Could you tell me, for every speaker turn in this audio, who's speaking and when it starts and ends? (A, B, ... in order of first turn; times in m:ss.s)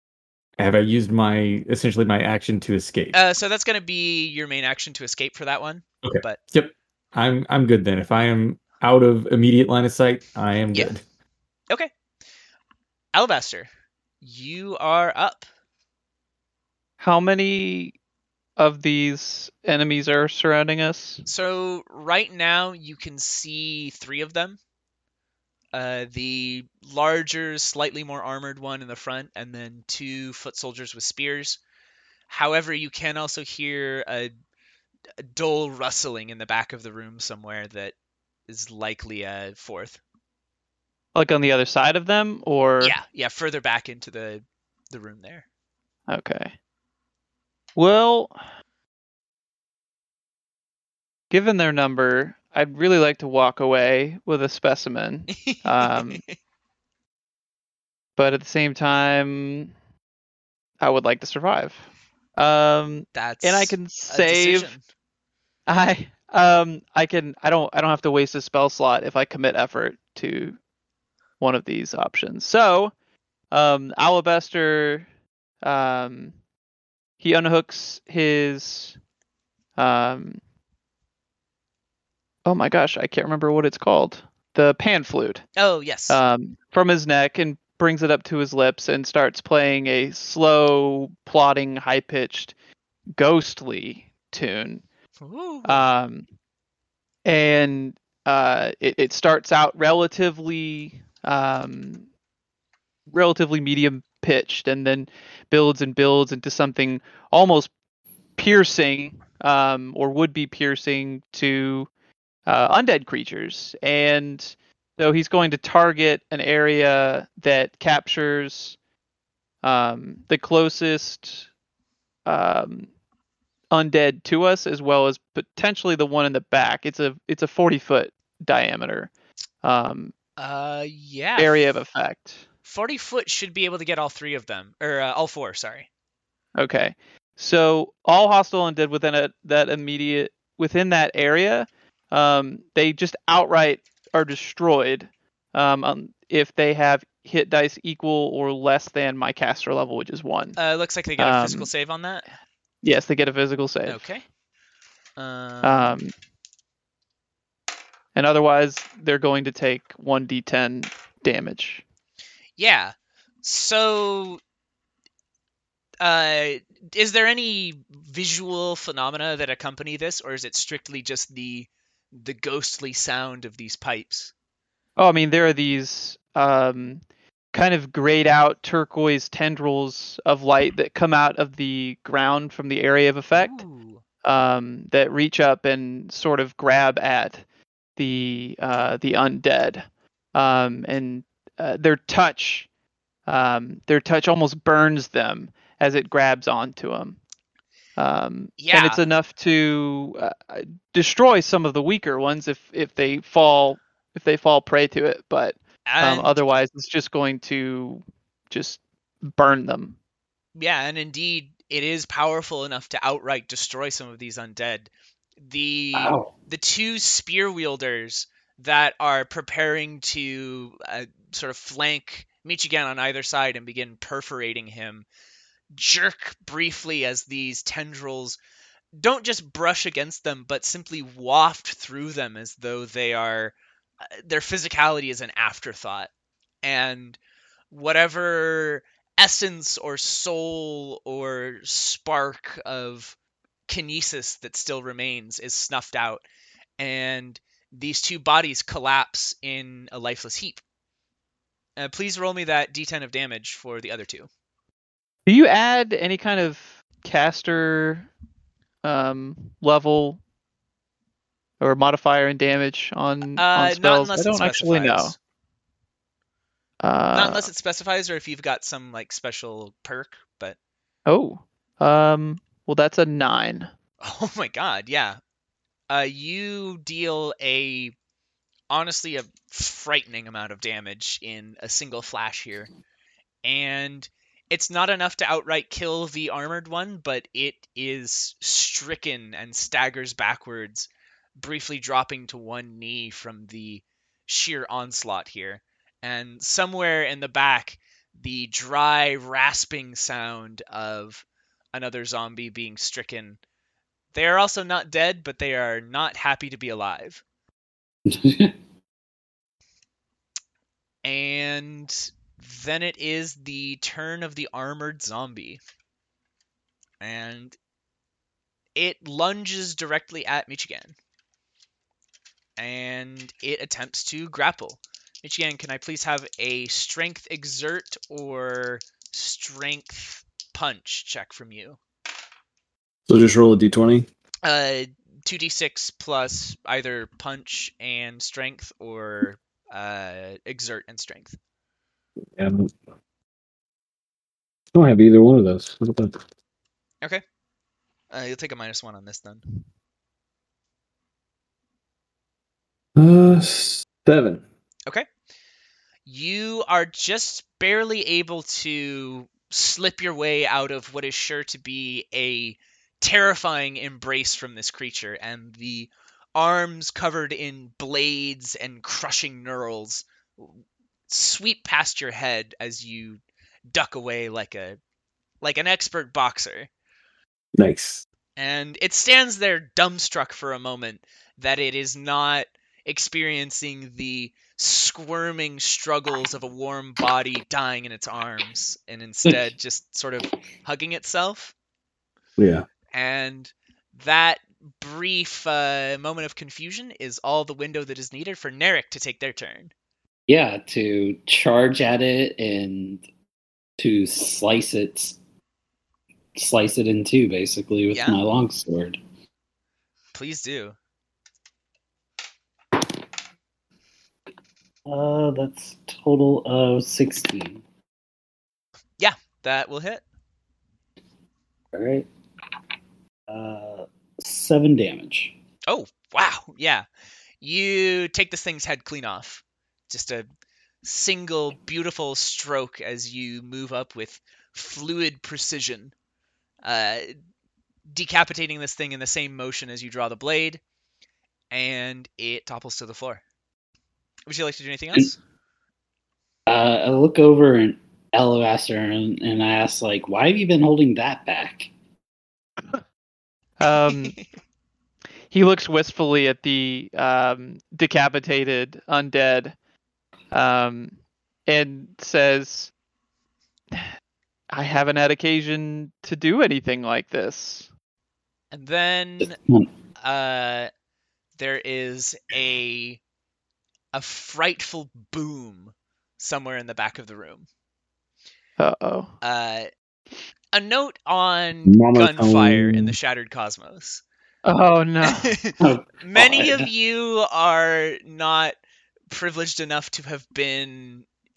0:00.6-0:03.2 A
0:03.1-0:06.4 B
0:06.0-0:11.0 A
0:13.1-0:13.7 B
0:14.2-0:15.5 B
0:17.0-0:18.0 C
0:18.6-0:21.2 C
0:21.3-0:24.6 B
0:25.7-0:31.6 B
0:32.3-0:34.3 B
0:35.2-0:37.9 B
0:38.5-0:40.0 B
0:41.2-0:43.0 C
0:42.8-0:45.4 B
0:46.1-0:46.5 C
0:47.8-0:48.4 C
0:51.3-0:56.2 C
0:55.3-0:56.4 B
0:58.2-0:59.7 C
1:00.8-1:01.9 C
1:02.4-1:04.7 C
1:03.1-1:04.8 B
1:05.7-1:10.6 C
1:11.4-1:12.9 C
1:13.5-1:15.1 C
1:15.6-1:16.3 C
1:17.2-1:19.0 C
1:19.8-1:20.4 C
1:22.5-1:25.4 C
1:25.6-1:26.2 B
1:26.1-1:32.5 C
1:33.2-1:34.8 C
1:35.2-1:35.8 B
1:35.6-1:36.2 C
1:37.2-1:42.1 C
1:43.1-1:47.7 C
1:48.4-1:51.9 C
1:52.5-1:58.8 C
1:59.6-2:01.5 C
2:02.3-2:02.9 C
2:03.7-2:09.1 C
2:09.6-2:10.1 C
2:10.4-2:11.7 B
2:11.4-2:12.4 C
2:12.6-2:15.9 B
2:16.6-2:30.6 C
2:30.6-2:32.2 B
2:31.2-2:31.7 C
2:32.8-2:34.0 C
2:33.9-2:34.2 B
2:35.2-2:36.0 B
2:35.6-2:36.1 C
2:38.2-2:41.8 C
2:42.6-2:44.4 B
2:46.0-2:54.3 B
2:55.0-2:57.0 C
2:57.5-3:03.6 C
3:03.3-3:04.0 B
3:04.2-3:07.4 C
3:08.0-3:12.7 C
3:13.3-3:17.2 C
3:18.0-3:30.0 C
3:18.6-3:19.0 B
3:25.9-3:26.3 B
3:30.6-3:45.1 B
3:35.9-3:36.3 D
3:45.7-3:48.4 B
3:49.0-3:53.6 B
3:54.1-3:56.1 B
3:56.6-3:57.2 B
3:57.7-4:03.2 B
4:03.7-4:06.2 B
4:06.8-4:10.6 B
4:11.8-4:14.3 B
4:15.3-4:18.1 C
4:18.8-4:20.2 C
4:21.6-4:25.1 C
4:23.4-4:25.2 B
4:26.8-4:27.5 C
4:27.1-4:30.6 B
4:31.1-4:33.7 C
4:34.0-4:35.2 B
4:35.9-4:37.9 B
4:38.7-4:42.7 B
4:43.4-5:03.4 B
5:04.1-5:07.2 B
5:08.1-5:08.5 D
5:11.0-5:15.6 B
5:17.0-5:17.6 B
5:18.8-5:21.0 B
5:22.6-5:31.8 B
5:33.1-5:34.1 E
5:34.4-5:41.4 B
5:42.4-5:42.7 E
5:44.7-5:46.2 E
5:48.1-5:49.4 B
5:53.0-5:54.4 E
5:56.1-6:13.2 B
6:13.7-6:14.8 B
6:15.4-6:16.7 B
6:17.6-6:18.0 E
6:18.4-6:31.5 B
6:32.4-6:32.7 E
6:32.9-6:39.7 B
6:40.3-6:43.0 D
6:43.8-6:45.2 D
6:46.4-6:49.0 D
6:47.9-6:48.2 B
6:50.1-6:50.8 B
6:54.9-6:57.6 D
6:59.0-7:00.0 B
7:01.7-7:02.1 D
7:03.3-7:05.3 D
7:05.7-7:06.9 B
7:07.4-7:10.3 B
7:10.8-7:15.9 B
7:16.6-7:17.1 B
7:17.9-7:20.6 B
7:21.5-7:23.2 B
7:24.3-7:25.2 B
7:26.5-7:31.7 D
7:33.6-7:34.2 C
7:34.0-7:34.3 B
7:35.3-7:39.5 C
7:40.3-7:40.9 C
7:41.5-7:42.7 C
7:44.5-7:47.7 C
7:48.5-7:49.4 B
7:50.0-7:50.7 B
7:51.4-7:53.0 B
7:53.9-7:57.5 B
7:58.6-7:59.2 C
7:59.2-7:59.7 B
8:00.5-8:04.0 B
8:01.7-8:03.0 E
8:04.4-8:05.4 C
8:05.0-8:08.5 B
8:05.6-8:06.7 D
8:09.1-8:11.1 B